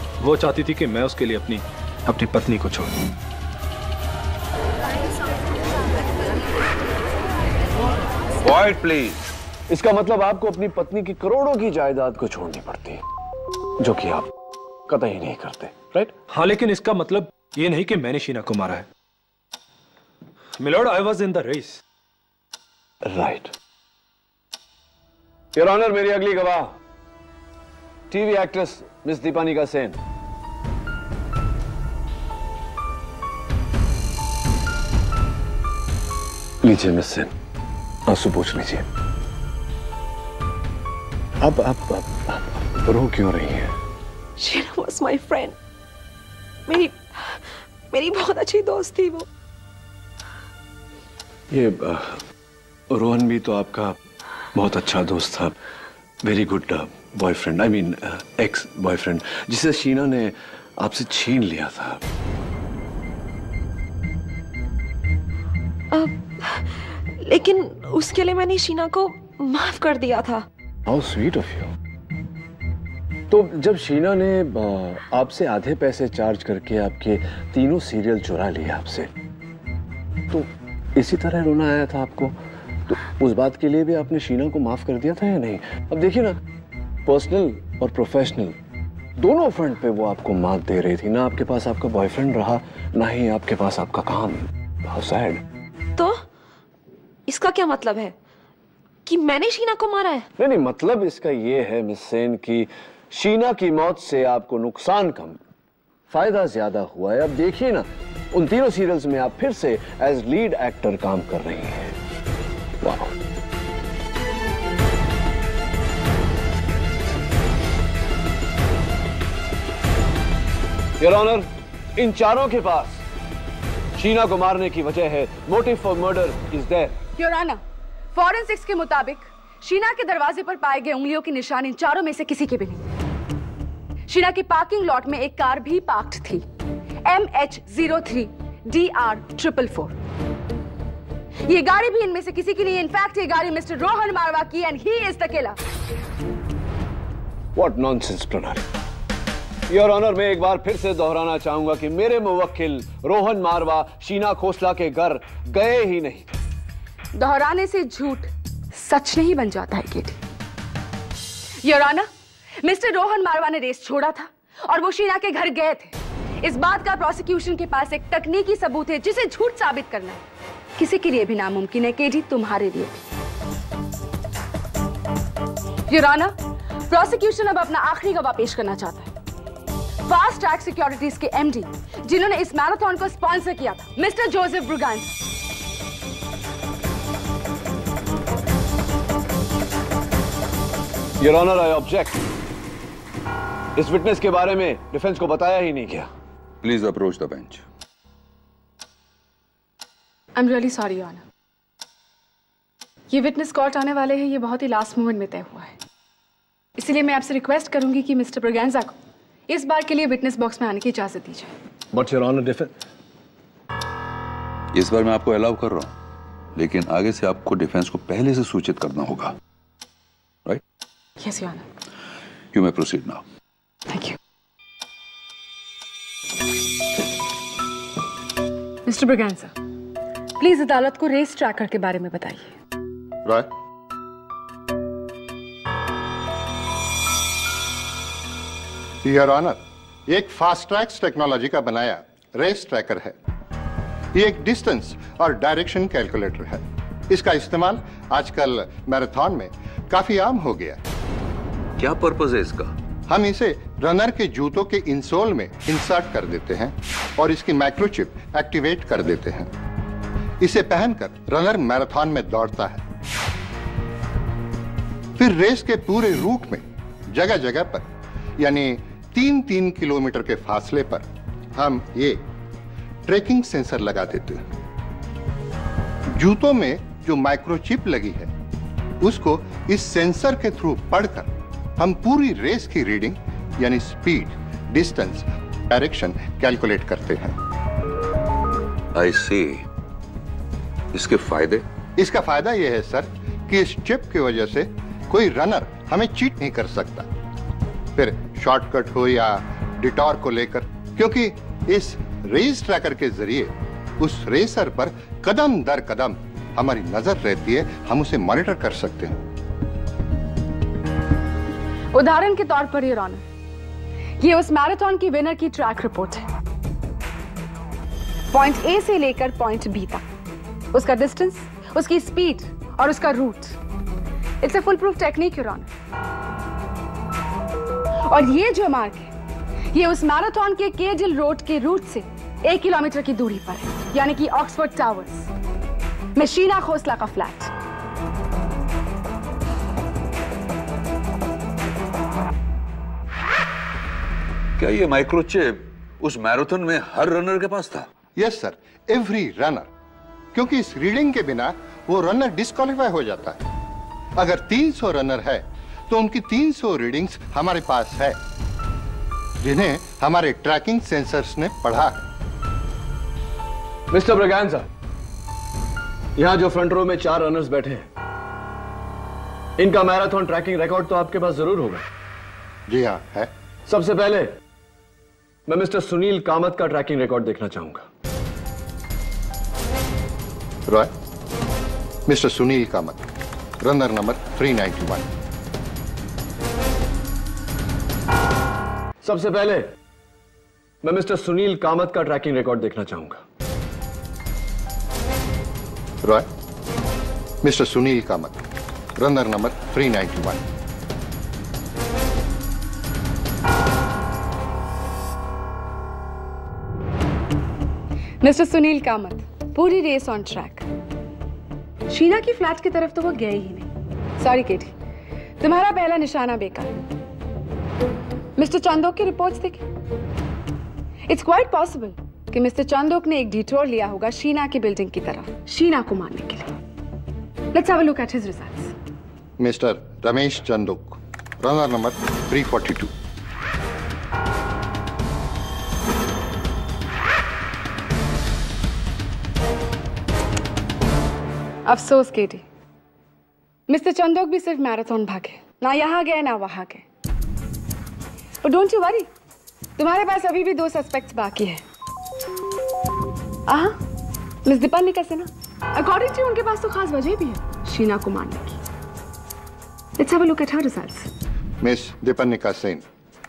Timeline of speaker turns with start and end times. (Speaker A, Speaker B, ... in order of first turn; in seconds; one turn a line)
Speaker A: 0.2-3.0
Speaker B: 8.4-9.3
Speaker C: 9.7-13.0
Speaker C: 13.8-14.3
Speaker C: 14.9-16.1
Speaker A: 16.3-18.9
Speaker A: 20.6-21.8
Speaker C: 23.0-23.5
Speaker C: 25.6-26.8
Speaker C: 28.1-30.0
Speaker C: 36.6-37.3
Speaker C: 38.1-38.9
Speaker C: 41.4-43.7
Speaker D: 44.4-45.6
Speaker D: 46.7-49.3
Speaker C: 51.5-52.2
Speaker C: 52.9-54.0
Speaker C: 54.5-55.6
Speaker C: 56.2-62.0
Speaker D: 65.9-70.5
Speaker C: 70.9-71.7
Speaker C: 73.3-79.1
Speaker C: 80.3-82.4
Speaker C: 82.9-86.4
Speaker C: 87.1-88.6
Speaker C: 89.2-95.4
Speaker D: 96.0-96.2
Speaker D: 97.3-98.2
Speaker D: 99.1-100.3
Speaker C: 100.4-105.4
Speaker C: 106.1-112.0
Speaker C: 112.8-113.2
Speaker C: 121.0-123.0
Speaker C: 124.0-127.0
Speaker E: 127.2-127.6
Speaker E: 128.1-132.9
Speaker E: 134.1-136.4
Speaker E: 137.1-140.0
Speaker E: 141.5-145.6
Speaker C: 147.6-148.6
Speaker C: 149.7-156.4
Speaker E: 157.2-160.2
Speaker E: 161.6-162.1
Speaker E: 162.6-170.2
Speaker E: 170.8-173.1
Speaker E: 175.9-176.3
Speaker E: 176.9-179.1
Speaker E: 180.1-185.1
Speaker C: 191.2-192.2
Speaker C: 193.8-196.1
Speaker B: 196.6-197.6
Speaker E: 200.4-201.2
Speaker E: 203.1-205.8
Speaker E: 206.8-209.0
Speaker E: 209.5-211.5
Speaker C: 211.9-212.7
Speaker B: 214.7-215.9
Speaker B: 216.6-219.4
Speaker E: 221.2-221.7
Speaker B: 222.5-223.2
Speaker E: 223.9-224.2
Speaker E: 228.9-229.5
Speaker E: 230.4-232.5
Speaker F: 239.0-243.2
Speaker F: 244.1-250.8
Speaker B: 251.8-252.7
Speaker F: 253.1-259.5
Speaker F: 260.4-262.8
Speaker F: 265.2-267.9
Speaker F: 268.4-272.2
Speaker F: 273.1-274.4
Speaker F: 276.1-278.3
Speaker F: 279.0-287.4
Speaker B: 288.9-289.6
Speaker B: 290.9-291.6
Speaker F: 292.0-297.1
Speaker F: 298.0-309.2
Speaker E: 311.9-313.2
Speaker E: 314.2-316.2
Speaker E: 318.3-320.0
Speaker E: 320.7-323.6
Speaker E: 324.4-325.7
Speaker E: 328.1-329.1
Speaker E: 329.7-335.3
Speaker E: 336.2-337.5
Speaker B: 344.6-347.9
Speaker F: 348.1-349.7
Speaker F: 350.3-353.4
Speaker F: 354.2-358.2
Speaker F: 359.4-362.0
Speaker C: 363.9-364.7
Speaker C: 366.2-367.9
Speaker C: 369.6-371.9
Speaker F: 372.7-373.3
Speaker C: 373.7-374.4
Speaker C: 375.5-377.9
Speaker F: 382.1-383.0
Speaker F: 383.6-385.1
Speaker C: 389.0-389.7
Speaker C: 390.8-393.2
Speaker F: 397.4-398.4
Speaker F: 399.0-400.4
Speaker E: 408.2-410.7
Speaker E: 411.9-414.8
Speaker E: 415.4-416.8
Speaker E: 418.4-419.6
Speaker E: 421.1-426.5
Speaker E: 427.5-428.7
Speaker F: 429.4-432.9
Speaker E: 441.7-442.4
Speaker E: 443.7-446.8
Speaker E: 448.4-449.1
Speaker E: 449.8-451.6
Speaker E: 453.5-453.8
Speaker E: 454.4-458.6
Speaker E: 460.0-461.1
Speaker F: 461.6-462.9